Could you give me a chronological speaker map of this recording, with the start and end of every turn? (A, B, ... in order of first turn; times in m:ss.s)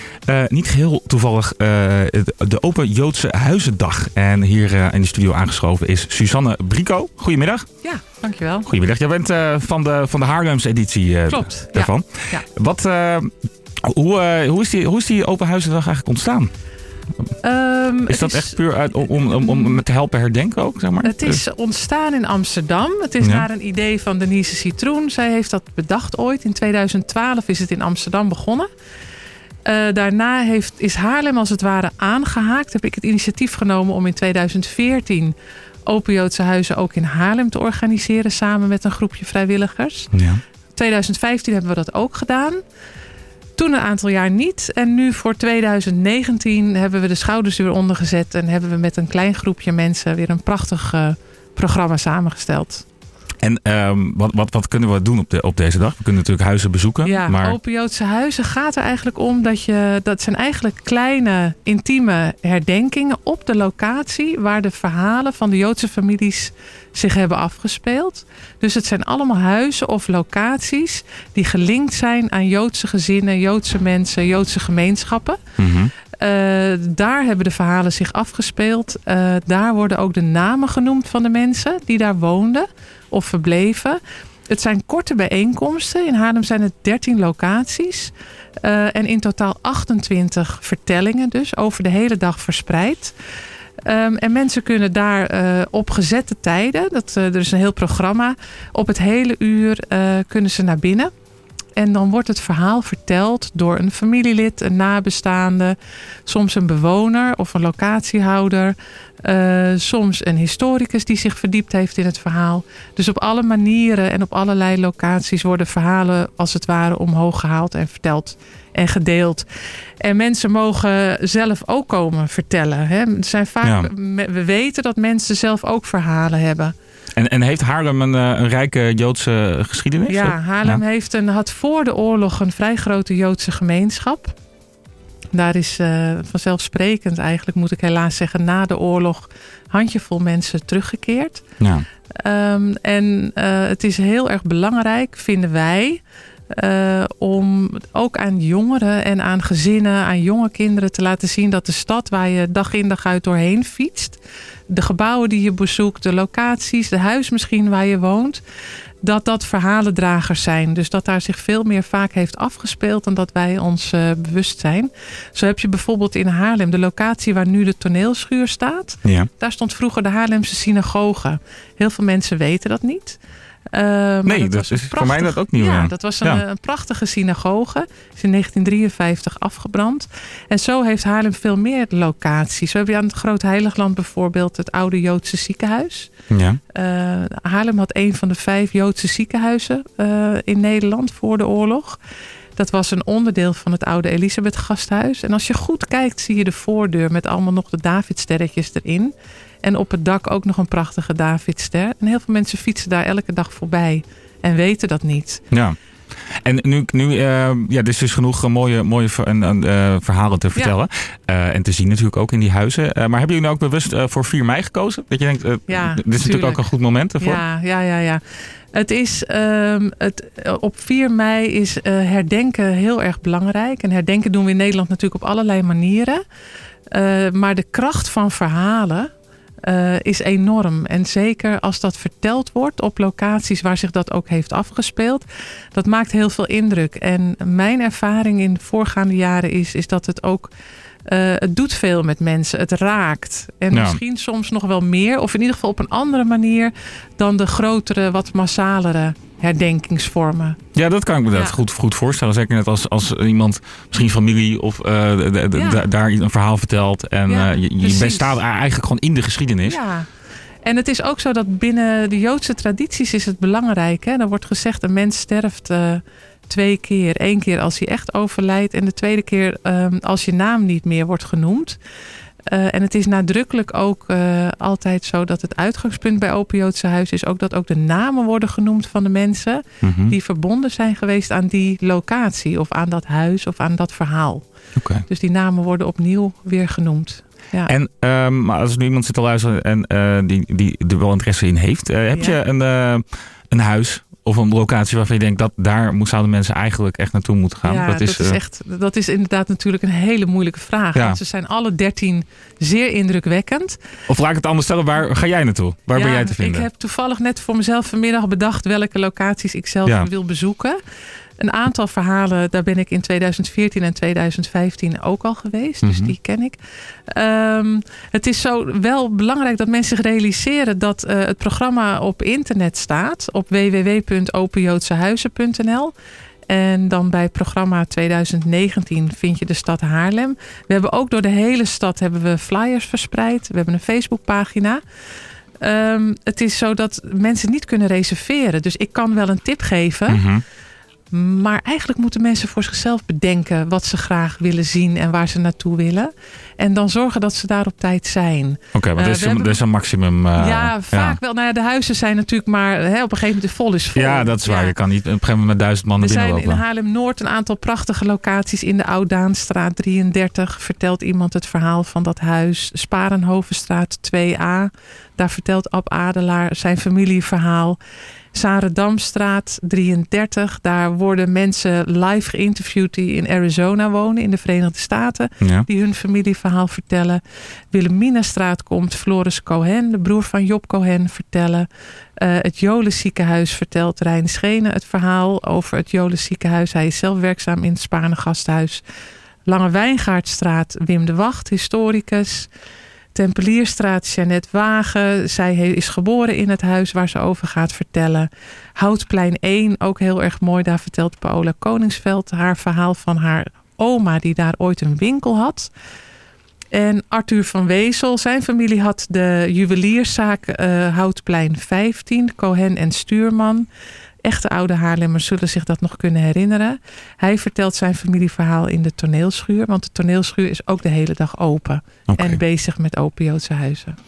0:00.3-0:07.7 A
0:07.8-0:08.7 B
0:08.6-0:13.3 A
0:11.3-0:12.4 B
0:13.8-0:16.5 A
0:17.4-0:18.6 B
0:18.1-0:21.4 A
0:19.1-0:19.8 B
0:21.0-0:28.7 B
0:23.2-0:23.4 A
0:29.6-0:35.3 B
0:35.9-0:40.1 B
0:40.1-0:40.4 A
0:40.8-0:42.6 B
0:43.6-0:52.8 B
0:53.4-0:57.6 A
0:57.0-1:15.4 B
1:15.6-1:15.9 A
1:16.2-1:33.2 B
1:33.8-1:41.1 B
1:41.8-1:59.4 B
2:00.0-2:06.7 B
2:03.6-2:03.9 A
2:07.2-2:10.8 A
2:10.1-2:14.3 B
2:15.3-2:21.4 B
2:21.6-2:21.9 A
2:22.2-2:38.4 B
2:39.0-2:53.2 B
2:49.0-2:49.3 A
2:53.7-3:06.1 B
2:54.2-2:56.4 A
3:06.3-3:06.6 A
3:06.7-3:12.0 B
3:12.6-3:25.4 B
3:25.5-3:25.8 A
3:26.4-3:37.4 A
3:35.7-3:36.6 B
3:37.2-3:38.2 B
3:38.7-3:46.2 B
3:46.9-3:49.1 B
3:49.6-4:00.5 B
4:01.1-4:10.6 B
4:03.7-4:04.0 A
4:10.7-4:19.8 A
4:11.3-4:11.6 B
4:15.5-4:15.8 B
4:17.3-4:18.4 B
4:19.6-4:20.1 B
4:20.6-4:31.8 B
4:32.5-4:44.4 B
4:39.8-4:40.1 A
4:44.8-4:45.0 A
4:45.1-4:47.7 B
4:47.6-4:58.4 A
4:52.1-4:52.4 B
4:57.6-5:03.8 B
5:04.1-5:06.7 A
5:05.9-5:10.8 B
5:11.4-5:16.6 B
5:15.8-5:16.1 A
5:17.1-5:25.9 B
5:26.5-5:34.8 B
5:35.6-5:40.2 B
5:40.1-5:40.4 A
5:41.1-5:49.6 B
5:48.7-5:51.2 A
5:50.3-5:54.8 B
5:53.9-5:56.6 A
5:56.0-6:07.8 B
6:08.3-6:17.2 B
6:15.4-6:15.6 A
6:17.7-6:21.7 B
6:22.2-6:28.8 B
6:29.5-6:32.5 B
6:33.1-6:45.7 B
6:46.7-6:53.7 B
6:54.2-7:04.0 B
7:02.1-7:02.4 A